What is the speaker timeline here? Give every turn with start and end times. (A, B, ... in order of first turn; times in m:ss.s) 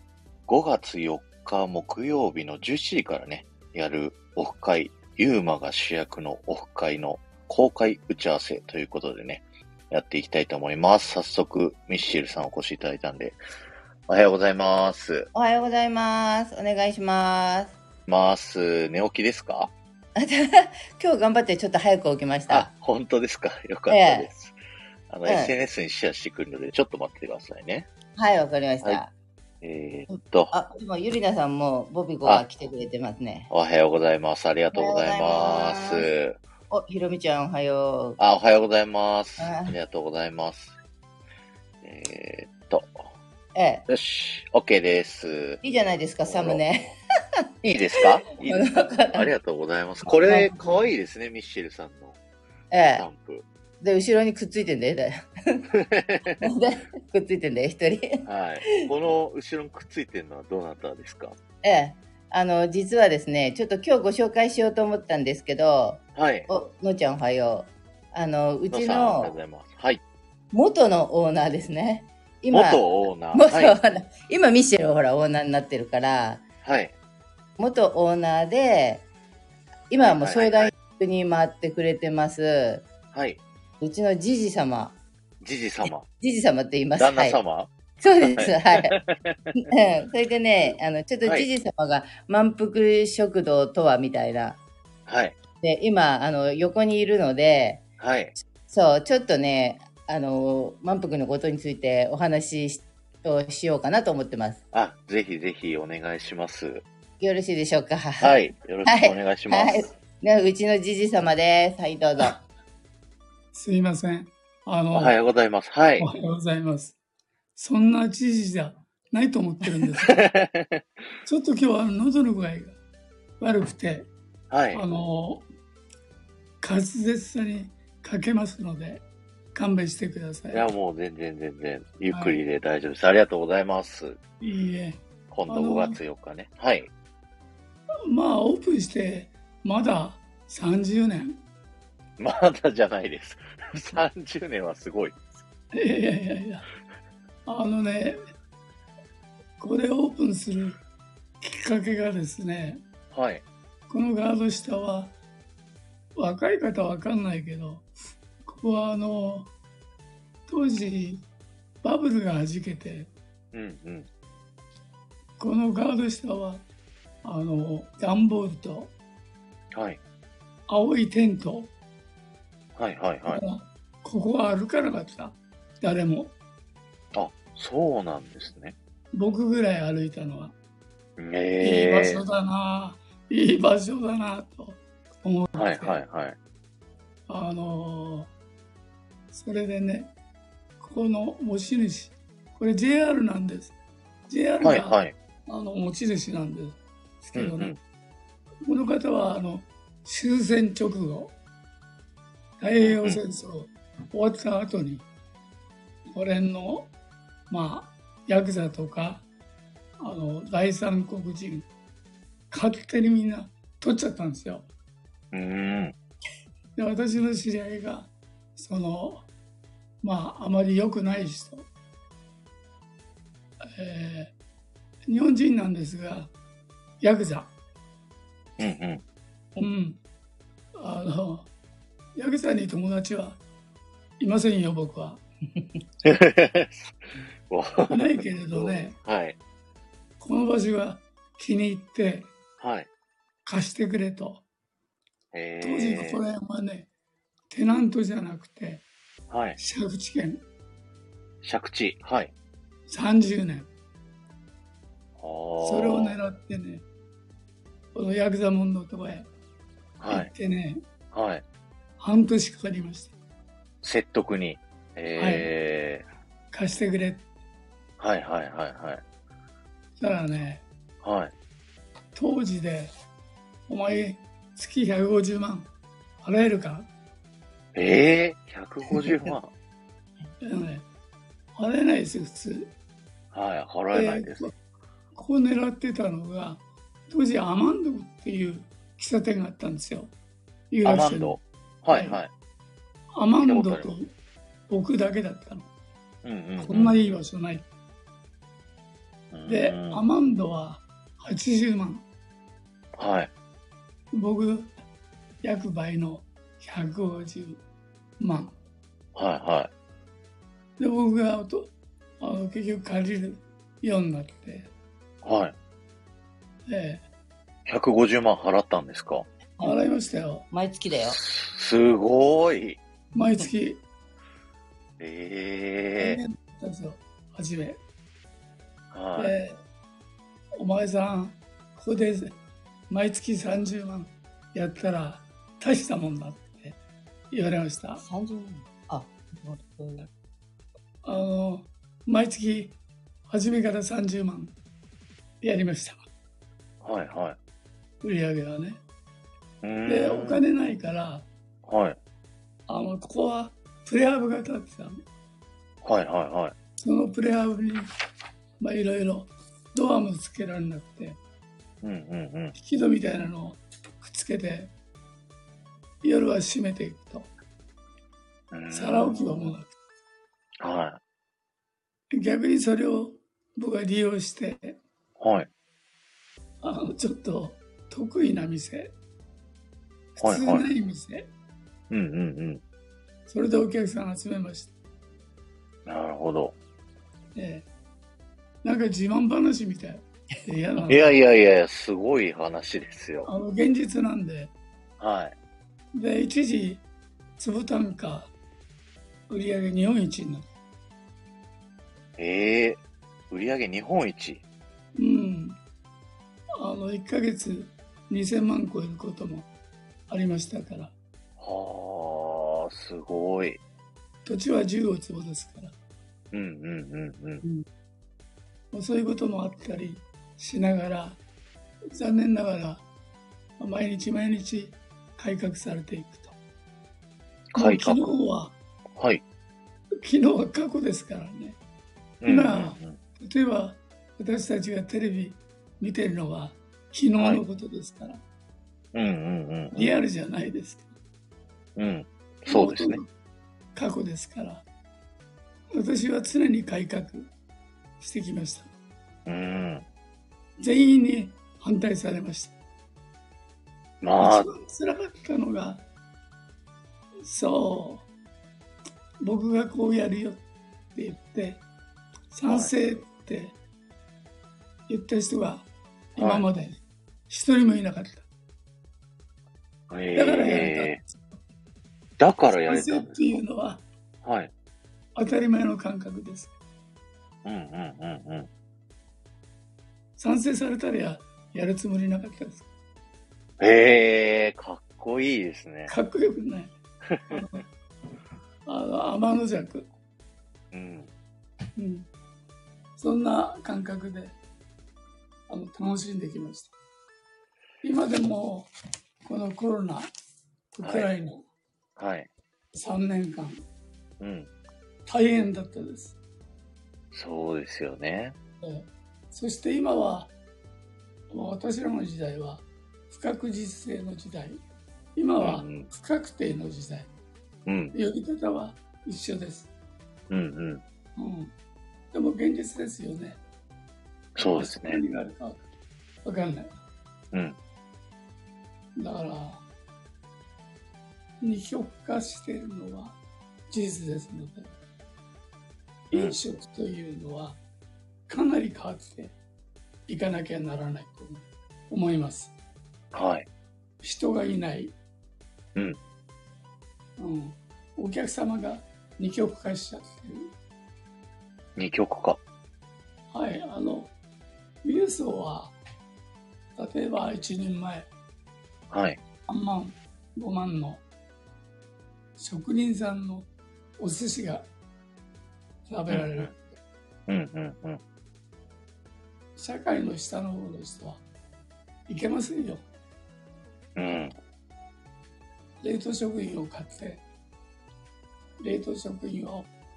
0:00.5-0:13.4 A
0:14.1-0:15.3 A
0:15.3-0:17.7 B
0:18.1-0:19.7 A
0:20.2-0:22.7 B
0:22.5-0:24.6 A
0:23.9-0:24.3 B
0:25.1-0:27.9 A
0:25.2-0:25.5 B
0:28.2-0:29.1 B
0:29.6-0:30.5 A
0:30.5-0:33.5 B
0:33.5-0:36.4 A
0:34.7-0:36.1 B
0:36.7-0:38.2 B
0:38.2-0:40.8 A
0:39.4-0:39.8 B
0:41.8-0:43.0 A
0:43.6-0:43.8 B
0:43.9-0:45.6 A
0:45.6-0:47.0 B
0:46.2-0:46.6 A
0:47.6-0:52.2 A
0:48.0-0:49.3 B
0:50.2-0:50.7 B
0:52.7-0:53.0 B
0:53.0-0:53.4 A
0:53.8-0:55.6 B
0:55.7-0:56.4 A
0:56.4-0:58.7 B
0:58.3-1:01.4 A
1:01.6-1:09.4 B
1:06.2-1:06.5 A
1:08.7-1:10.0 A
1:10.5-1:16.4 B
1:12.5-1:13.8 A
1:16.6-1:16.9 A
1:17.6-1:19.0 B
1:19.9-1:22.9 B
1:20.0-1:20.7 A
1:23.1-1:23.4 A
1:23.8-1:25.0 B
1:25.4-1:26.1 A
1:25.8-1:27.4 B
1:27.0-1:29.6 A
1:28.0-1:29.0 B
1:29.6-1:34.6 B
1:35.1-1:35.4 A
1:35.6-1:37.8 B
1:38.0-1:38.3 A
1:38.4-1:44.6 B
1:44.7-1:46.8 A
1:47.2-1:52.4 B
1:48.2-1:49.9 A
1:53.5-1:55.1 C
1:54.9-1:56.1 A
1:56.0-1:57.0 C
1:57.6-2:00.2 C
2:00.1-2:00.8 A
2:01.2-2:02.8 C
2:03.4-2:04.1 C
2:04.5-2:05.0 A
2:04.7-2:05.4 C
2:06.6-2:10.7 C
2:10.5-2:14.2 A
2:12.1-2:12.4 C
2:14.4-2:16.0 C
2:15.3-2:16.9 A
2:18.1-2:21.4 C
2:22.2-2:25.2 A
2:25.7-2:26.7 C
2:27.5-2:28.3 C
2:29.6-2:30.8 C
2:31.4-2:32.8 C
2:33.1-2:33.4 A
2:33.9-2:35.2 C
2:36.2-2:37.9 C
2:38.4-2:39.5 C
2:40.5-2:41.2 C
2:41.8-2:43.1 C
2:43.5-2:44.1 A
2:45.4-2:46.6 C
2:47.2-2:48.9 C
2:49.7-2:50.0 A
2:50.7-2:51.7 C
2:52.8-2:53.4 A
2:53.3-2:56.3 C
2:57.1-2:58.8 A
2:59.1-3:00.6 C
3:01.2-3:02.2 A
3:01.6-3:06.0 C
3:05.6-3:06.4 A
3:07.3-3:08.3 C
3:09.3-3:10.1 C
3:10.8-3:13.8 C
3:14.3-3:17.8 C
3:14.6-3:15.2 A
3:17.4-3:17.8 A
3:18.6-3:21.3 C
3:22.6-3:25.1 C
3:22.8-3:23.2 A
3:26.1-3:26.9 C
3:27.5-3:29.3 C
3:30.0-3:31.7 C
3:32.5-3:34.7 C
3:35.3-3:36.0 A
3:36.8-3:39.3 C
3:40.0-3:41.7 C
3:43.6-3:44.4 C
3:45.1-3:46.3 C
3:47.0-3:47.5 C
3:48.6-3:49.0 A
3:49.6-3:50.0 C
3:50.8-3:51.5 C
3:52.2-3:53.4 C
3:54.2-3:55.2 C
3:56.0-3:56.9 A
3:57.5-3:59.4 A
3:57.9-3:59.0 C
4:00.2-4:02.3 C
4:02.6-4:02.9 A
4:03.5-4:04.4 C
4:05.3-4:06.2 A
4:05.6-4:06.9 C
4:07.5-4:08.9 C
4:09.3-4:09.6 A
4:09.6-4:10.4 C
4:11.4-4:12.3 A
4:12.9-4:13.7 C
4:15.2-4:16.2 A
4:15.6-4:16.8 C
4:18.0-4:19.3 C
4:20.0-4:20.3 A
4:20.1-4:20.8 C
4:21.1-4:21.4 A
4:22.0-4:23.1 C
4:23.8-4:26.1 A
4:25.2-4:25.5 C
4:26.5-4:27.3 C
4:28.0-4:29.0 A
4:30.0-4:30.6 C
4:31.0-4:31.3 A
4:32.2-4:32.9 C
4:33.7-4:35.7 C
4:36.2-4:36.9 C
4:37.8-4:39.5 A
4:39.0-4:39.3 C
4:40.4-4:40.9 C
4:41.6-4:42.7 C
4:43.3-4:44.5 A
4:43.9-4:44.5 C
4:45.1-4:50.1 C
4:50.7-4:52.2 C
4:50.8-4:52.3 A
4:53.2-4:54.1 C
4:53.4-4:53.9 A
4:54.7-4:55.7 C
4:56.2-4:57.0 A
4:56.6-4:57.7 C
4:59.3-5:00.0 A
4:59.5-5:02.1 C
5:03.0-5:03.3 A
5:04.1-5:04.7 C
5:05.4-5:07.6 C
5:08.2-5:08.6 C
5:09.2-5:09.7 A
5:10.8-5:14.7 C
5:15.2-5:15.6 A
5:16.7-5:17.0 C
5:17.7-5:19.3 A
5:19.6-5:20.5 C
5:20.5-5:21.2 B
5:20.9-5:22.8 A
5:23.1-5:23.8 C
5:25.0-5:26.2 A
5:26.0-5:27.8 C
5:28.9-5:29.4 A
5:29.2-5:29.6 C
5:30.6-5:32.4 C
5:32.9-5:36.8 C
5:37.3-5:38.0 C
5:38.0-5:40.1 B
5:41.0-5:42.8 C
5:43.3-5:44.6 C
5:45.4-5:46.0 C
5:46.8-5:47.4 A
5:48.0-5:48.8 C
5:49.6-5:50.4 A
5:49.9-5:51.3 C
5:51.7-5:52.0 A
5:52.7-5:55.0 C
5:55.8-5:56.6 A
5:56.8-5:57.8 C
5:58.6-6:01.2 C
6:01.8-6:02.5 A
6:02.6-6:04.7 C
6:06.0-6:07.3 C
6:08.5-6:09.5 A
6:08.7-6:09.7 C
6:10.6-6:11.0 A
6:12.1-6:14.8 C
6:15.2-6:15.5 A
6:16.6-6:18.9 C
6:20.2-6:21.3 C
6:20.2-6:20.7 A
6:21.9-6:22.6 A
6:23.3-6:24.7 C
6:25.9-6:26.6 A
6:27.4-6:27.7 C
6:28.6-6:31.1 C
6:30.9-6:33.3 A
6:33.2-6:34.5 C
6:35.0-6:35.4 A
6:36.0-6:36.9 C
6:37.4-6:38.3 C
6:39.3-6:40.5 C
6:42.2-6:44.4 A
6:45.0-6:45.6 C
6:46.6-6:49.5 C
6:50.1-6:51.0 C
6:51.4-6:53.6 A
6:54.2-6:55.8 C
6:56.3-6:57.4 A
6:58.7-7:01.2 C
7:01.9-7:02.9 C
7:03.6-7:06.4 C
7:07.5-7:08.1 A
7:07.6-7:08.6 C
7:09.0-7:09.2 A
7:10.0-7:11.6 C
7:12.2-7:13.0 A
7:12.2-7:18.2 C
7:18.9-7:19.9 A
7:19.7-7:20.9 C
7:21.8-7:23.0 A
7:22.5-7:23.1 C
7:23.8-7:24.6 C
7:25.7-7:27.3 C
7:28.0-7:28.7 C
7:29.3-7:29.8 A
7:30.6-7:32.6 C
7:34.0-7:34.5 A
7:34.2-7:35.8 C
7:37.2-7:38.1 C
7:39.2-7:40.4 C
7:41.0-7:41.6 C
7:42.3-7:43.6 C
7:42.5-7:42.7 A
7:44.9-7:48.3 C
7:46.2-7:46.5 A
7:49.9-7:51.0 A
7:50.2-7:51.4 C
7:52.2-7:53.4 A
7:52.5-7:53.8 C
7:54.2-7:54.5 A
7:55.2-7:56.5 C
7:57.4-7:58.5 A
8:00.2-8:02.7 C
8:03.6-8:05.9 A
8:05.9-8:06.7 C
8:07.1-8:07.4 A
8:07.3-8:07.6 C
8:08.7-8:09.9 C
8:10.7-8:11.1 A
8:11.8-8:12.1 C
8:13.0-8:14.4 C
8:15.5-8:16.7 C
8:17.8-8:18.7 C
8:19.2-8:20.1 C
8:20.7-8:21.4 C
8:20.8-8:21.1 A
8:22.0-8:22.3 A
8:22.7-8:23.6 C
8:24.2-8:24.5 A
8:25.1-8:26.2 C
8:27.1-8:28.4 A
8:28.6-8:30.3 C
8:31.3-8:34.6 C
8:35.2-8:37.1 C
8:35.4-8:35.9 A
8:37.7-8:38.0 A
8:37.9-8:39.7 C
8:40.3-8:40.8 A
8:41.2-8:41.5 C
8:42.1-8:43.4 C
8:44.4-8:45.0 A
8:44.6-8:45.7 C
8:46.2-8:46.8 C
8:47.3-8:47.6 A
8:49.0-8:49.6 C
8:51.4-8:53.2 C
8:53.7-8:54.7 C
8:56.1-8:57.6 C
8:58.3-8:59.4 C
9:00.1-9:02.5 C
9:03.1-9:03.5 A
9:04.0-9:05.0 C
9:07.2-9:10.5 C
9:11.8-9:12.4 A
9:13.3-9:14.1 C
9:14.8-9:15.8 C
9:16.8-9:18.1 C
9:18.9-9:19.2 A
9:19.5-9:21.0 C
9:22.4-9:23.5 C
9:24.0-9:24.7 C
9:25.9-9:26.7 C
9:26.1-9:26.5 A
9:27.3-9:28.0 A
9:29.6-9:31.2 C
9:32.1-9:32.8 C
9:34.0-9:34.4 A
9:35.8-9:37.2 C
9:38.6-9:39.7 C